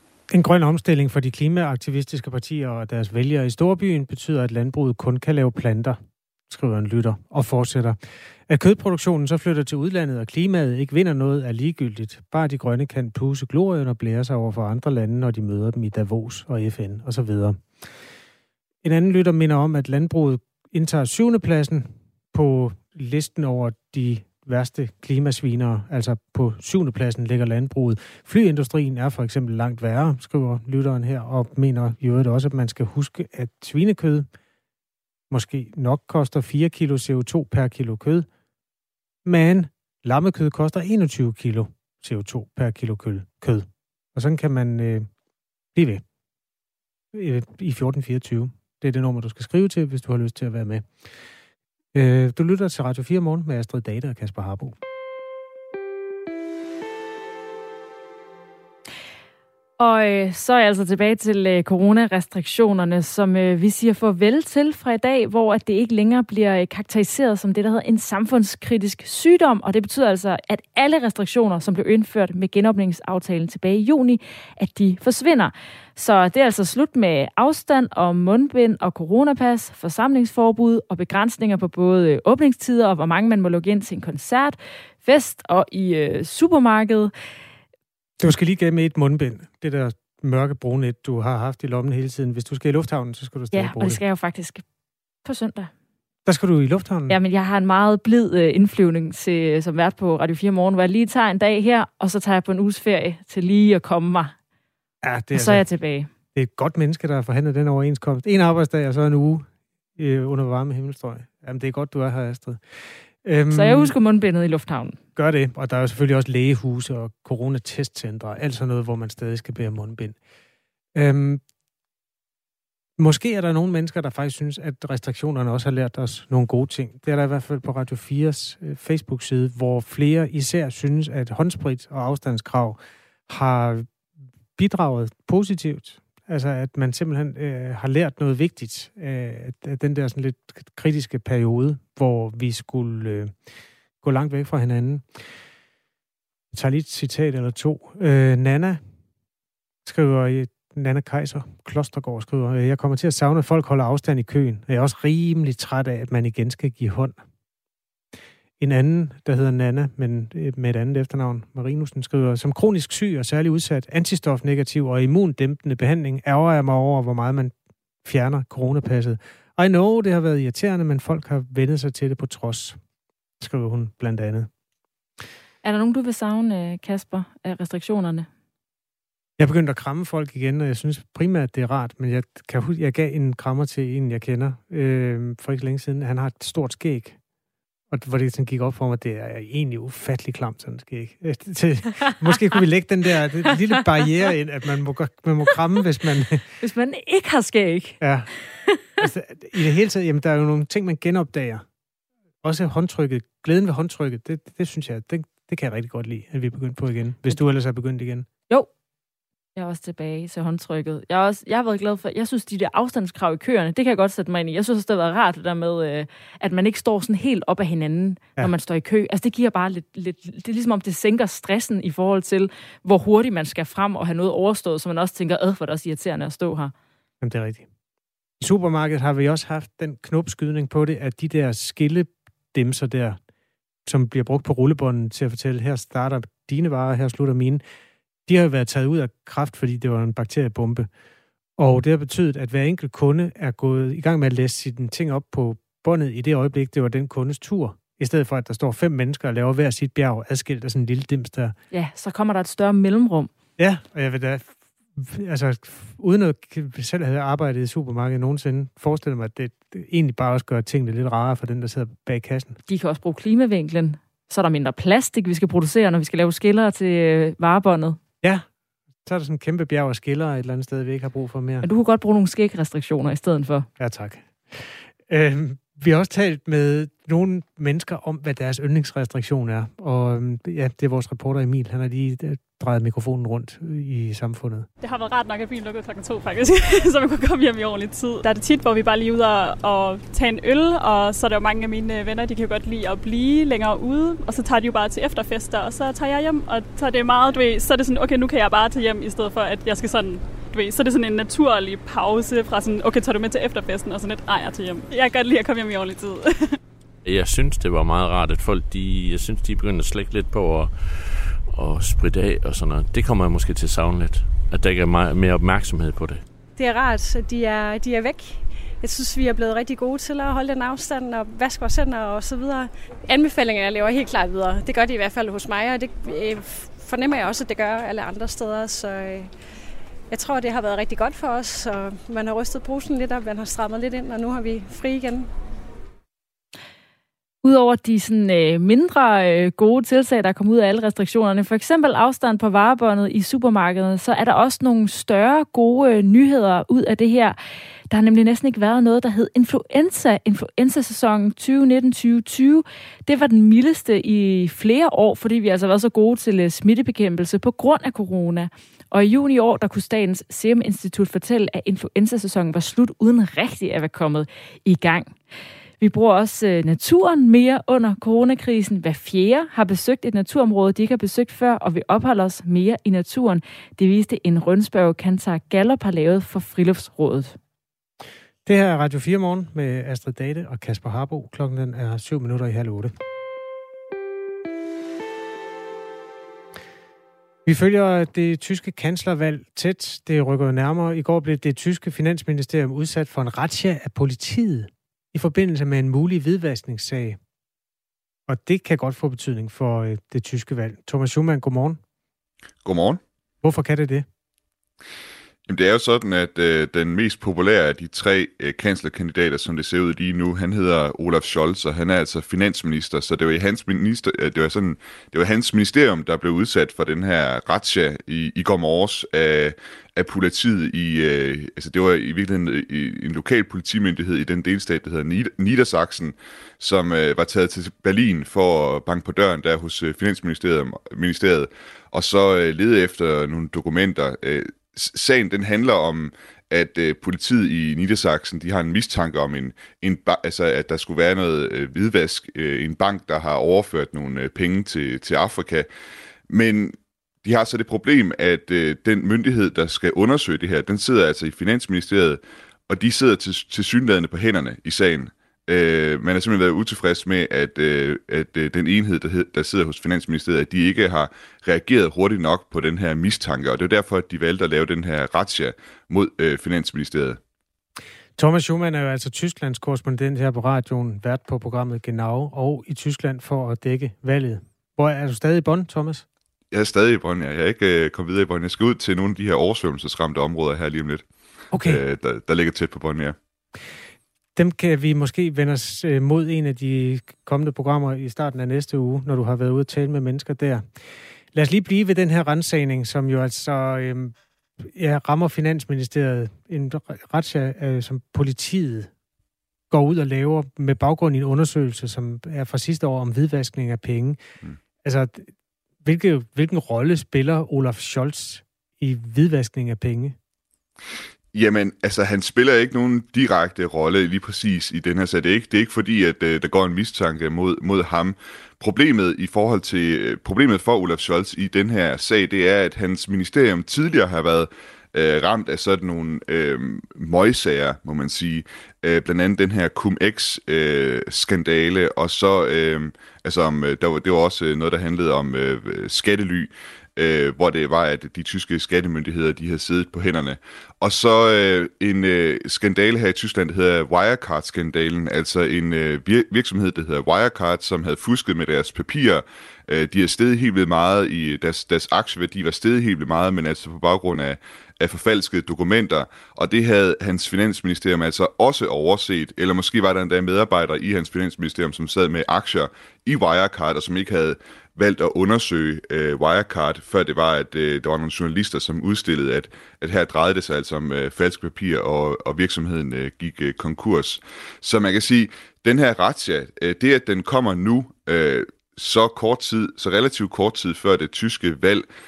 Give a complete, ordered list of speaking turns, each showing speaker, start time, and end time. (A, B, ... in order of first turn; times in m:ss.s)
0:00.3-0:08.0 A
0:08.5-0:17.7 A
0:18.8-0:34.3 A
0:35.3-0:38.3 A
0:39.2-0:45.1 A
0:45.8-0:46.0 A
0:47.1-0:50.9 A
0:51.9-0:54.8 A
0:59.8-1:27.1 B
1:28.2-1:34.0 A
1:33.5-1:34.6 B
1:35.2-1:35.7 B
1:36.3-1:37.2 A
1:37.1-1:44.3 B
1:45.0-1:45.6 A
1:45.3-1:46.1 B
1:46.3-1:52.6 A
1:53.2-1:53.9 A
1:53.5-1:55.0 B
1:55.2-2:00.2 A
2:01.0-2:01.4 A
2:03.0-2:14.0 A
2:14.6-2:23.4 A
2:24.0-2:25.0 A
2:26.5-2:28.8 A
2:29.8-2:37.2 A
2:38.6-2:52.8 A
2:53.4-2:54.5 A
2:55.6-2:58.3 B
2:59.4-3:07.2 A
3:07.9-3:16.4 A
3:16.6-3:18.0 B
3:18.0-3:18.3 A
3:19.0-3:21.6 A
3:22.4-3:28.3 A
3:29.6-3:46.7 B
3:47.2-3:47.7 A
3:48.4-3:53.2 A
3:53.8-3:57.6 A
3:58.3-4:00.9 A
4:01.6-4:11.6 A
4:11.7-4:13.3 B
4:13.6-4:22.6 A
4:22.7-4:28.0 B
4:29.0-4:31.7 A
4:31.6-4:33.7 B
4:33.8-4:44.7 A
4:44.8-5:06.6 C
5:07.0-5:16.2 D
5:16.6-5:29.3 E
5:30.1-5:35.3 E
5:37.4-5:47.4 B
5:47.9-6:05.2 B
6:05.8-6:17.4 B
6:18.4-6:22.9 A
6:27.4-6:37.2 A
6:38.3-6:41.8 A
6:42.6-6:43.0 F
6:43.4-6:44.1 A
6:45.5-7:25.7 F
7:26.3-7:47.2 F
7:48.2-7:56.0 A
7:56.5-8:01.0 F
8:01.5-8:01.8 A
8:01.6-8:03.2 F
8:04.4-8:10.8 A
8:11.3-8:18.9 A
8:19.7-8:24.2 A
8:24.8-8:25.3 A
8:25.8-8:30.2 A
8:31.3-9:41.8 F